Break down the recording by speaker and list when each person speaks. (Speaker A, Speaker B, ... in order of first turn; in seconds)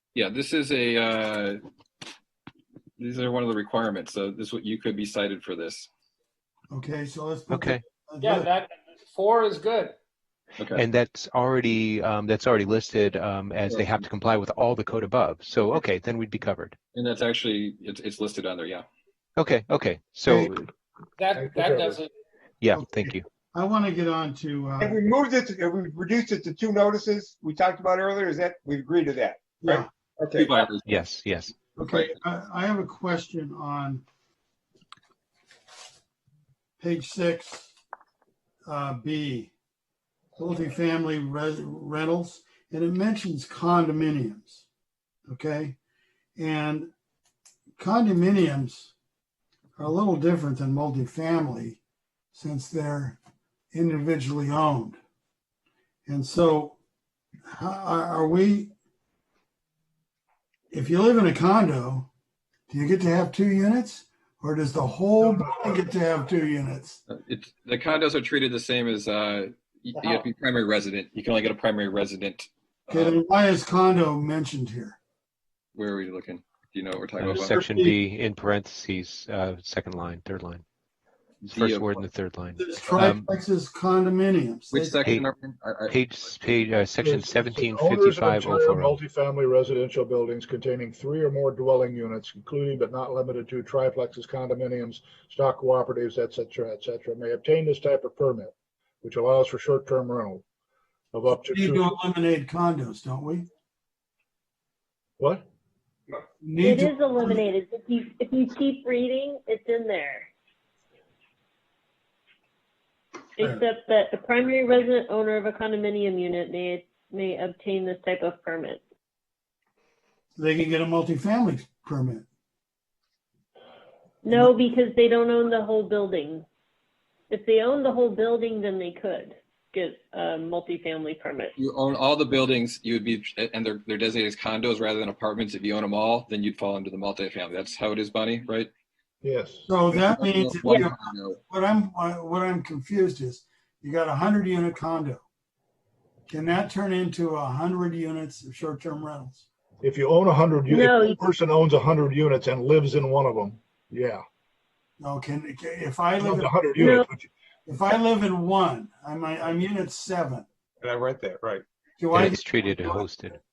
Speaker A: 0.1-1.6, 3.0-5.9, 13.7-14.0, 16.9-18.8, 30.3-30.9, 31.8-32.1, 67.1-73.2, 75.7-77.6, 81.4-82.0, 84.7-86.0, 131.6-138.7, 139.9-141.4
Speaker B: 6.7-8.5, 22.7-25.0, 29.6-29.9, 31.8-34.0, 36.8-37.7, 38.6-39.5, 40.4-44.6, 45.3-45.8, 46.4-46.9, 47.8-48.9, 49.8-51.8, 52.3-53.2, 53.7-55.0, 56.0-56.8, 57.4-58.7, 60.7-62.1, 62.7-67.0, 72.9-75.0, 77.3-78.0, 82.6-85.0, 101.5-103.5, 106.4-107.4, 120.4-122.2, 124.3-124.5, 139.7-145.2, 146.3-149.4, 155.0-156.8, 157.7-160.4, 162.0-162.4
Speaker C: 7.5-7.8, 10.8-16.8, 19.4-20.7, 22.6-23.2, 30.9-31.6, 77.2-80.6, 81.4-83.3, 85.9-88.9, 162.1-163.4
Speaker D: 8.2-9.9, 21.2-22.1
Speaker E: 21.4-22.0, 65.2-65.8, 87.0-100.4, 101.1-101.8, 105.2-105.5, 139.2-139.7, 149.8-154.2, 156.2-157.3
Speaker F: 24.8-30.6, 160.8-161.6
Speaker G: 106.6-110.3, 113.4-118.8, 124.2-126.5, 127.3-131.5, 150.7-151.2, 156.8-157.1